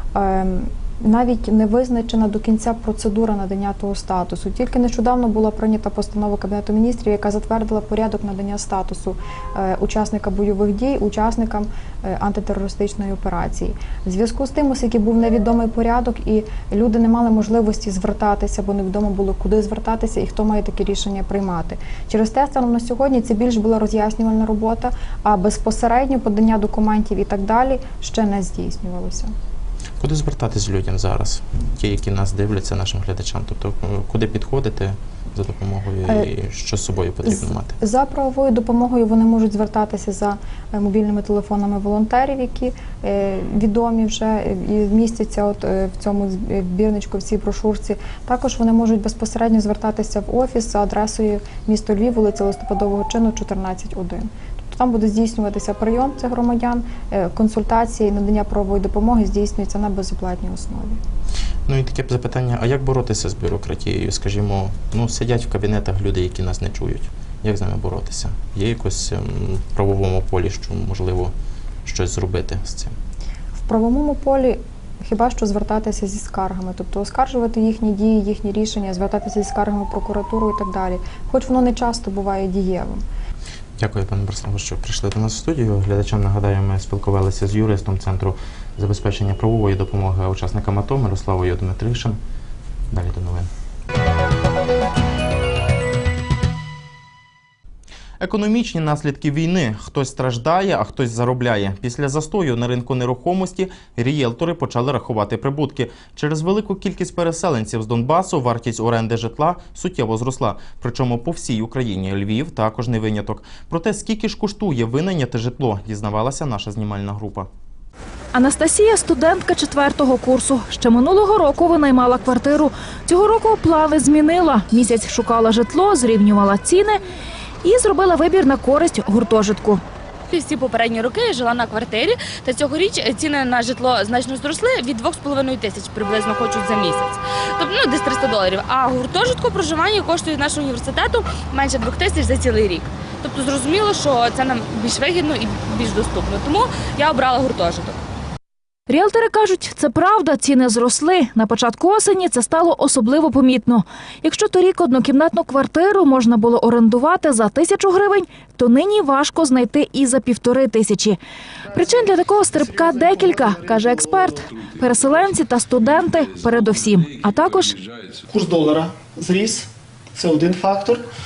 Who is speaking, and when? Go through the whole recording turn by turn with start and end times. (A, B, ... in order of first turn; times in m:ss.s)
0:00.1-0:29.3 A
0:30.0-0:37.7 B
0:37.2-1:01.0 A
1:01.7-1:11.3 B
1:11.8-1:12.9 B
1:13.6-1:23.0 A
1:23.8-1:32.2 B
1:32.9-1:33.5 B
1:38.2-1:57.5 B
1:58.3-2:07.0 C
2:07.6-2:09.8 C
2:10.3-2:28.0 D
2:28.9-2:41.2 C
2:41.7-2:44.4 E
2:41.7-2:47.8 C
2:48.3-2:51.0 E